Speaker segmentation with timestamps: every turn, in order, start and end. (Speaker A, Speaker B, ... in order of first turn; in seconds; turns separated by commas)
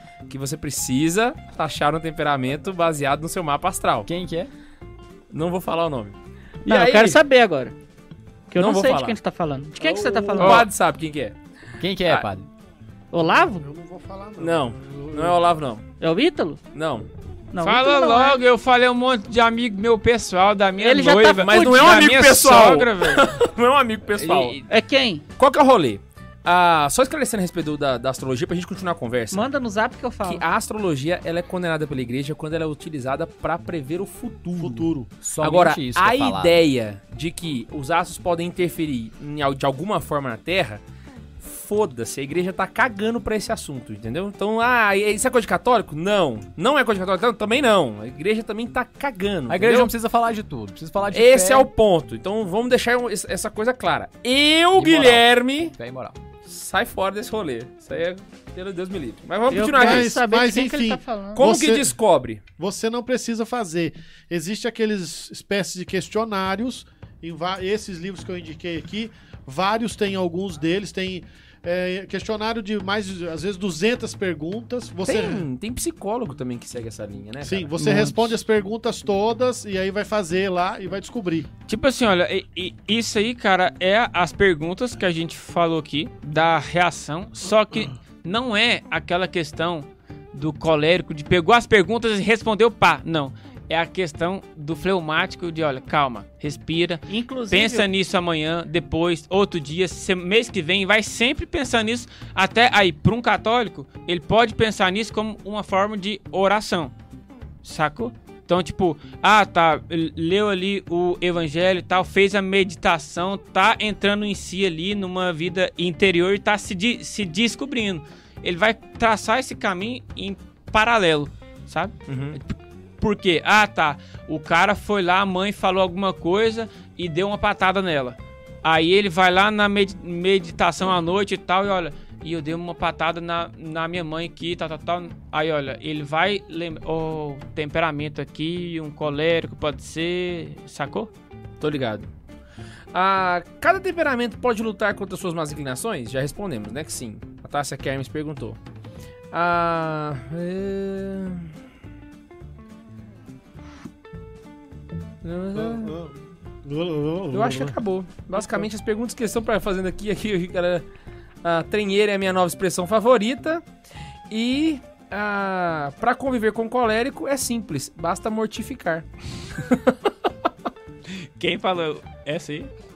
Speaker A: 0.3-4.1, Speaker B: 4.1-4.5, Speaker A: 5.3-7.2, Speaker C: 6.7-7.7, Speaker C: 8.5-10.7, Speaker A: 8.6-9.2, Speaker A: 9.8-11.3, Speaker D: 10.4-10.6, Speaker B: 11.8-12.4, Speaker C: 13.1-13.7, Speaker E: 13.6-15.4, Speaker A: 14.4-15.8, Speaker C: 16.0-16.6, Speaker A: 16.7-17.1, Speaker C: 17.5-18.4, Speaker D: 17.6-23.3, Speaker C: 20.8-21.7, Speaker A: 21.1-24.6, Speaker D: 24.2-24.6, Speaker C: 24.6-25.2, Speaker A: 25.4-29.5, Speaker C: 29.3-30.4, Speaker A: 30.2-34.9, Speaker E: 34.6-35.1, Speaker B: 35.2-36.6, Speaker A: 35.4-40.8, Speaker A: 41.4-49.9, Speaker B: 49.5-51.7, Speaker A: 51.1-55.7, Speaker B: 54.8-56.2, Speaker A: 56.4-60.1, Speaker C: 59.5-61.4, Speaker E: 59.7-61.9, Speaker A: 61.3-62.4, Speaker E: 62.6-75.5, Speaker A: 75.0-78.0, Speaker E: 77.4-81.5, Speaker C: 77.8-78.3, Speaker D: 81.7-106.9, Speaker C: 97.1-97.9, Speaker D: 107.6-141.1, Speaker A: 122.1-122.4, Speaker A: 141.6-142.1, Speaker A: 142.9-148.6, Speaker A: 149.3-151.5, Speaker A: 155.2-155.9, Speaker E: 155.5-157.8, Speaker A: 157.3-160.8, Speaker E: 158.3-158.7, Speaker A: 161.4-163.6, Speaker A: 164.3-169.9, Speaker D: 171.2-172.7